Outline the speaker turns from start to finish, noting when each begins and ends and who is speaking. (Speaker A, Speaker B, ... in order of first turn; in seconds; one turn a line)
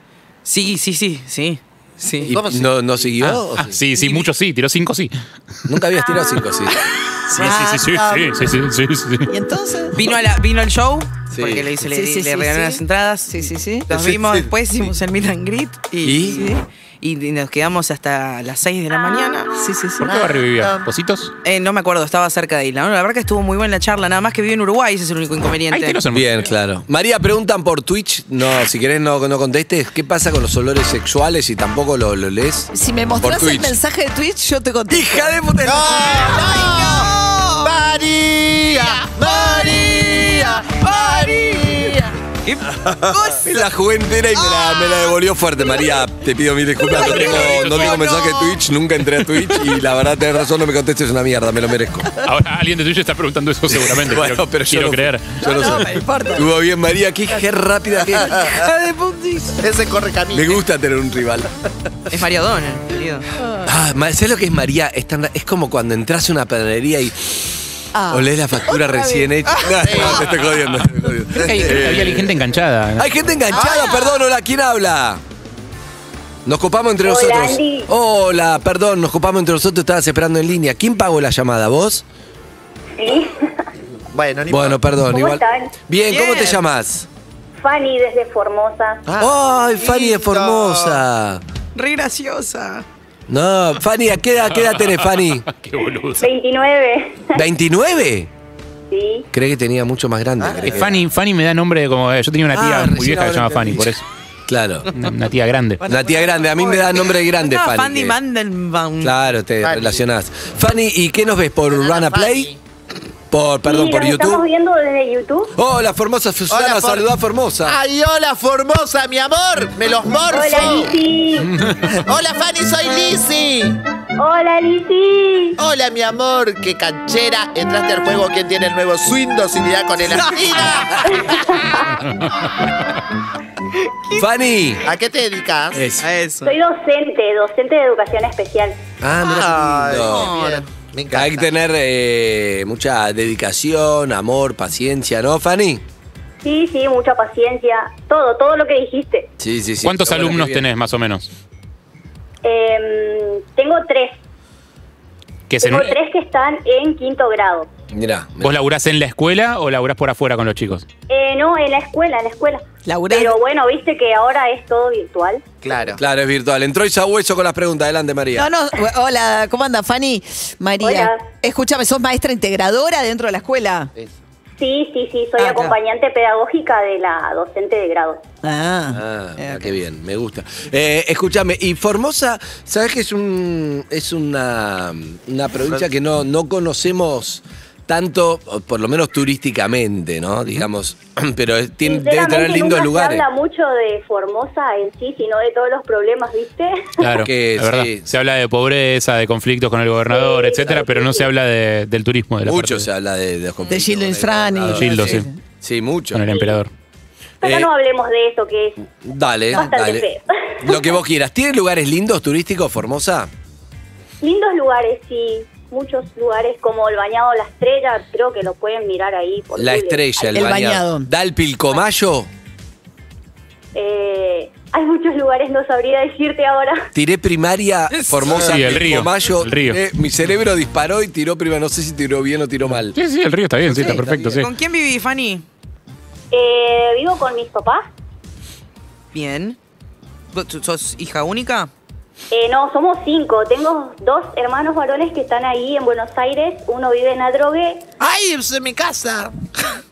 Speaker A: 0.5-2.4
Speaker B: 2.2-3.1
Speaker C: 2.2-3.8
Speaker D: 3.2-5.1
Speaker C: 5.7-6.8
Speaker D: 7.3-9.3
Speaker E: 7.3-8.3
Speaker E: 9.3-10.0
Speaker A: 9.9-19.5
Speaker C: 11.3-11.7
Speaker E: 11.9-13.9
Speaker C: 13.9-14.2
Speaker C: 16.0-16.4
Speaker E: 16.3-16.6
Speaker E: 19.6-20.1
Speaker D: 20.0-21.3
Speaker B: 20.0-20.9
Speaker A: 21.4-26.0
Speaker D: 25.7-26.5
Speaker C: 26.1-33.8
Speaker E: 32.7-35.4
Speaker C: 34.9-36.3
Speaker B: 35.6-42.1
Speaker A: 36.1-37.8
Speaker A: 39.2-41.9
Speaker A: 42.5-43.5
Speaker C: 43.4-52.2
Speaker A: 44.5-45.0
Speaker A: 47.0-48.2
Speaker D: 47.0-48.2
Speaker D: 52.2-55.4
Speaker C: 53.7-58.7
Speaker E: 55.4-56.5
Speaker B: 58.2-58.6
Speaker A: 58.6-59.5
Speaker B: 59.6-60.6
Speaker C: 60.3-61.5
Speaker A: 62.1-63.3
Speaker C: 63.6-72.5
Speaker E: 67.9-69.5
Speaker B: 69.7-70.4
Speaker D: 71.4-73.1
Speaker C: 73.0-75.2
Speaker B: 73.5-74.1
Speaker C: 76.5-82.0
Speaker F: 77.0-77.9
Speaker F: 83.0-83.7
Speaker B: 84.1-84.8
Speaker C: 84.5-87.1
Speaker F: 85.1-85.7
Speaker A: 86.1-86.6
Speaker F: 87.6-89.0
Speaker B: 89.1-91.0
Speaker C: 89.2-91.4
Speaker A: 91.8-92.8
Speaker C: 93.3-95.5
Speaker D: 94.6-96.3
Speaker F: 96.2-97.4
Speaker C: 97.3-98.3
Speaker F: 98.9-99.3
Speaker C: 99.3-101.0
Speaker B: 100.4-100.9
Speaker D: 100.7-104.0
Speaker A: 102.6-103.6
Speaker C: 104.5-104.9
Speaker D: 104.9-105.8
Speaker E: 105.8-106.7
Speaker C: 105.8-108.2
Speaker A: 107.3-109.2
Speaker C: 109.0-112.5
Speaker B: 109.6-110.0
Speaker B: 111.7-112.6
Speaker C: 113.3-114.5
Speaker F: 113.6-115.6
Speaker C: 115.5-117.8
Speaker B: 116.5-117.1
Speaker B: 117.6-120.9
Speaker F: 120.3-121.6
Speaker D: 121.5-121.9
Speaker B: 121.9-123.8
Speaker F: 124.2-125.6
Speaker B: 125.6-131.3
Speaker A: 130.1-130.6
Speaker F: 131.1-131.9
Speaker D: 132.0-132.5
Speaker C: 134.2-134.8
Speaker B: 134.8-135.9
Speaker C: 135.7-136.1
Speaker A: 136.0-136.6
Speaker F: 136.4-138.8
Speaker C: 139.0-140.3
Speaker B: 139.2-141.5
Speaker A: 140.0-140.7
Speaker C: 141.1-145.8
Speaker F: 146.4-149.3
Speaker C: 149.4-150.7
Speaker D: 149.8-151.3
Speaker F: 152.4-154.2
Speaker D: 155.5-155.9
Speaker F: 155.6-157.7
Speaker C: 157.9-158.6
Speaker D: 158.4-160.9
Speaker F: 161.1-165.4
Speaker E: 162.9-163.4
Speaker B: 165.6-166.0
Speaker C: 166.0-168.5
Speaker E: 168.4-173.9
Speaker F: 170.8-171.2
Speaker F: 174.6-178.2
Speaker E: 175.4-175.7
Speaker E: 178.4-179.7
Speaker C: 178.9-193.3
Speaker F: 191.8-197.3
Speaker D: 197.0-202.9
Speaker C: 197.2-198.1
Speaker F: 200.1-201.3
Speaker C: 202.4-206.2
Speaker E: 203.7-205.3
Speaker D: 204.7-205.3
Speaker D: 206.1-206.7
Speaker F: 206.3-206.6
Speaker F: 207.4-208.9
Speaker C: 207.4-207.7
Speaker C: 209.0-210.1
Speaker F: 209.5-210.9
Speaker C: 210.6-213.3
Speaker F: 214.2-220.6
Speaker C: 219.6-222.3
Speaker E: 220.3-221.1
Speaker F: 223.7-226.9
Speaker C: 226.9-233.0
Speaker A: 227.9-228.7
Speaker D: 228.4-229.8
Speaker D: 232.9-234.5
Speaker A: 233.7-235.4
Speaker C: 233.8-234.1
Speaker F: 236.3-237.9
Speaker A: 239.1-239.6
Speaker A: 240.3-241.7
Speaker F: 242.3-247.9
Speaker B: 248.0-249.5